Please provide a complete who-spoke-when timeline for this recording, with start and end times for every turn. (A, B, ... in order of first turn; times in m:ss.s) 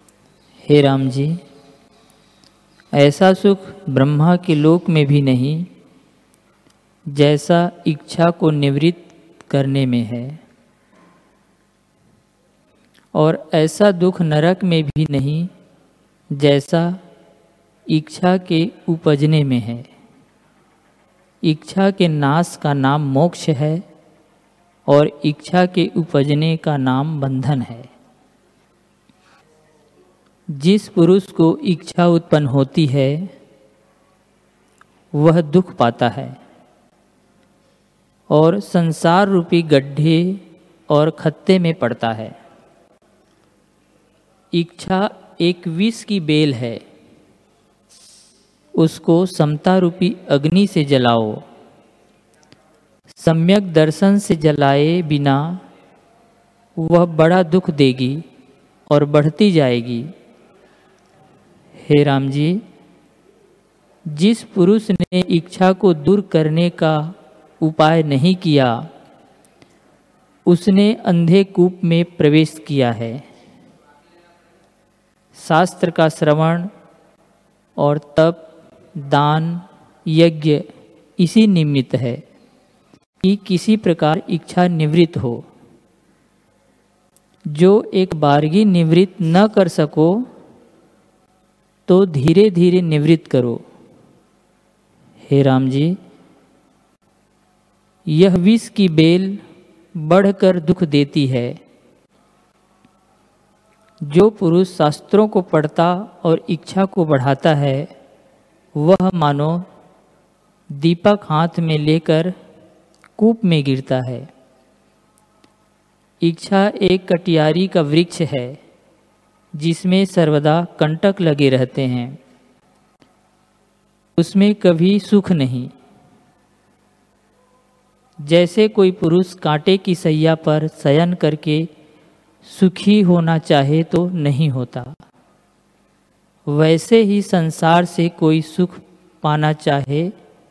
0:00.6-0:01.4 A
0:02.9-0:05.7 A
0:07.1-0:10.4 A
0:13.1-0:15.5 A
0:16.3-0:17.0 A
0:17.9-0:19.9 A
0:21.4-0:23.8 A
0:24.9-0:27.9 A
0:30.5-0:33.3 A
0:35.1-0:36.4 A
0:38.3-0:42.3 A
0:44.5-0:46.8 A
0:48.8-0:51.4 A
0:53.1-0:55.6 A
0:56.8-0:58.2 A
0:58.9-1:00.1 A
1:01.8-1:02.6 A
1:04.1-1:08.8 A
1:10.5-1:13.2 A
1:15.3-1:16.7 A
1:17.8-1:20.6 A
1:21.2-1:22.2 A
1:23.2-1:25.4 A
1:27.5-1:30.2 A
1:31.9-1:33.6 A
1:35.2-1:36.0 A
1:38.1-1:39.4 A
1:40.0-1:41.6 A
1:44.0-1:47.9 A
1:48.7-1:49.6 A
1:50.7-1:52.3 A
1:53.2-1:54.3 A
1:56.2-1:58.6 A
1:59.5-2:02.2 A
2:04.2-2:05.7 A
2:08.2-2:11.7 A
2:12.4-2:15.0 A
2:16.5-2:20.1 A